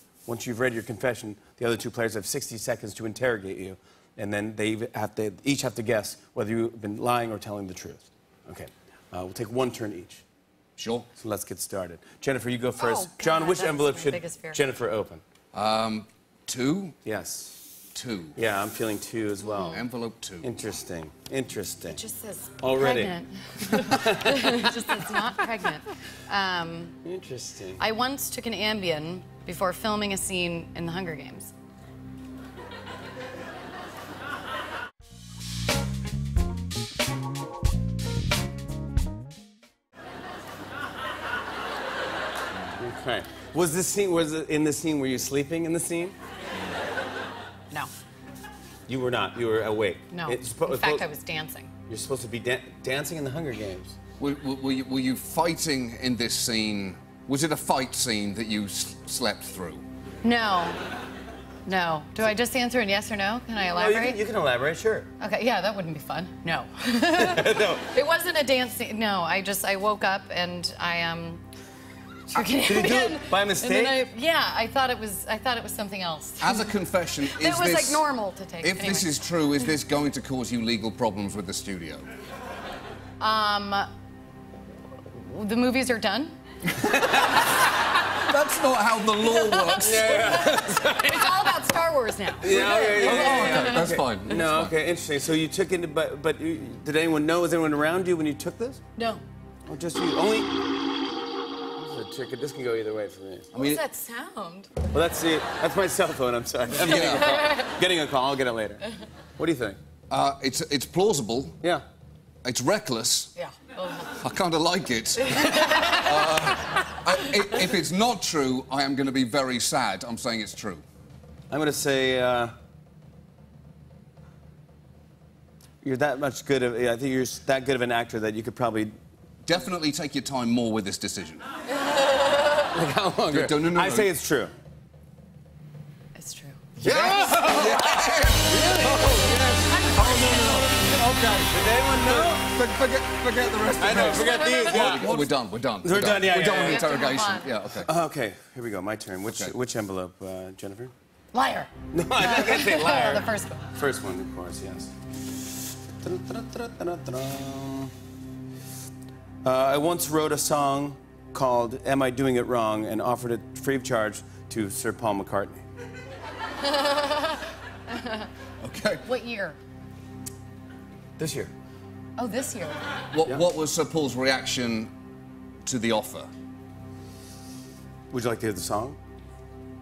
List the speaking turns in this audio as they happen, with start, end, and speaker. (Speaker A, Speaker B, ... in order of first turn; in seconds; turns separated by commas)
Speaker A: 0.3-10.2, Speaker B: 10.8-11.1, Speaker A: 11.2-15.2, Speaker C: 12.8-14.6, Speaker B: 15.5-17.0, Speaker A: 17.1-17.6, Speaker B: 17.9-18.4, Speaker A: 18.4-19.8, Speaker C: 19.4-19.8, Speaker B: 19.7-20.5, Speaker A: 20.4-22.0, Speaker C: 21.9-27.0, Speaker A: 22.6-24.7, Speaker A: 27.0-27.8, Speaker C: 27.8-31.5, Speaker A: 42.8-46.2, Speaker A: 48.9-51.1, Speaker C: 50.1-51.7, Speaker A: 51.9-54.0, Speaker B: 54.2-59.8, Speaker C: 60.2-60.8, Speaker C: 61.7-64.2, Speaker A: 63.7-65.1, Speaker C: 65.2-71.4, Speaker A: 67.1-67.9, Speaker C: 72.3-79.2, Speaker A: 72.3-74.0, Speaker B: 76.4-78.1, Speaker B: 78.6-82.1, Speaker C: 83.2-83.9, Speaker C: 85.1-86.4, Speaker B: 88.2-90.4, Speaker C: 89.2-94.0, Speaker A: 89.8-91.5, Speaker A: 92.4-98.8, Speaker B: 92.9-94.8, Speaker C: 99.0-99.2, Speaker A: 99.7-100.5, Speaker A: 101.8-103.5, Speaker B: 103.5-103.8, Speaker C: 103.5-104.7, Speaker A: 104.9-108.8, Speaker B: 106.7-107.5, Speaker C: 107.1-107.7, Speaker A: 109.4-109.8, Speaker B: 110.1-111.6, Speaker B: 112.4-113.3, Speaker C: 113.4-114.2, Speaker B: 114.0-120.8, Speaker C: 115.2-116.4, Speaker A: 121.5-122.5, Speaker A: 125.8-129.0, Speaker B: 129.5-131.5, Speaker A: 132.6-134.5, Speaker B: 133.3-134.1, Speaker C: 136.2-136.6, Speaker A: 136.8-139.2, Speaker B: 136.8-147.9, Speaker C: 139.3-140.7, Speaker A: 140.9-142.6, Speaker A: 143.8-146.9, Speaker C: 144.3-144.9, Speaker C: 146.5-147.5, Speaker A: 147.8-150.9, Speaker C: 151.3-153.7, Speaker A: 151.9-154.9, Speaker A: 156.0-157.9, Speaker A: 159.4-165.7, Speaker B: 168.6-169.1, Speaker C: 169.0-169.6, Speaker A: 171.2-171.5, Speaker C: 172.2-172.8, Speaker B: 173.1-174.9, Speaker B: 175.7-176.3, Speaker A: 178.1-179.0